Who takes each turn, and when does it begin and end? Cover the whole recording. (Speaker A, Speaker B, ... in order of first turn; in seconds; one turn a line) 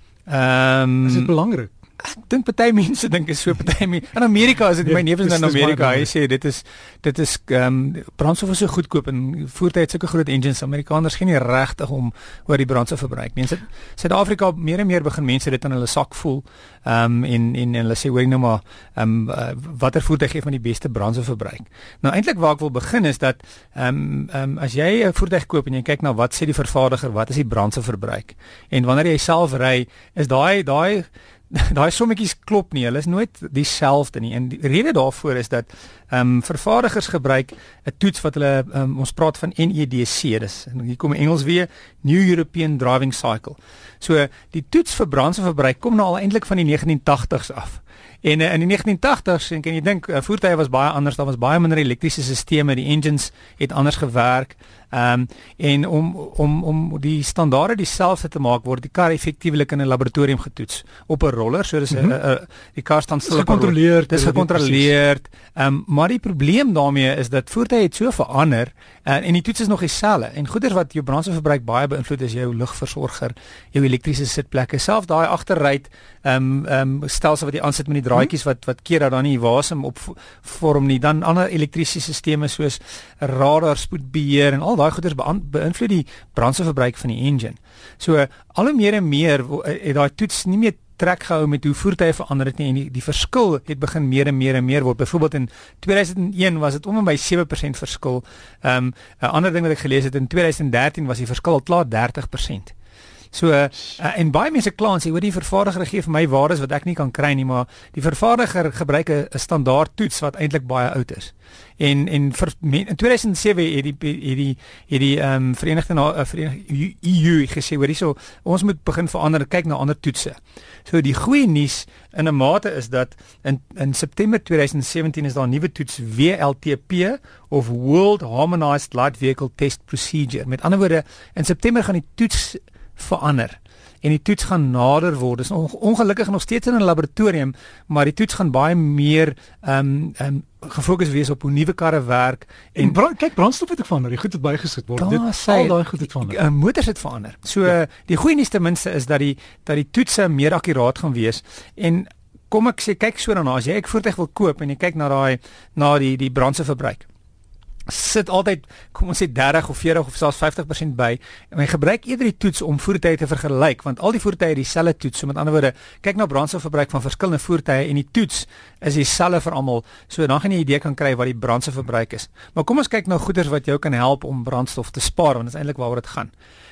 Speaker A: 0.3-1.3
Speaker B: 1.0-1.7
Speaker A: 2.0-102.7
Speaker B: 4.8-6.1
Speaker B: 63.3-64.9
Speaker A: 103.3-143.0
Speaker B: 142.8-146.4
Speaker A: 145.0-157.1
Speaker A: 157.9-176.3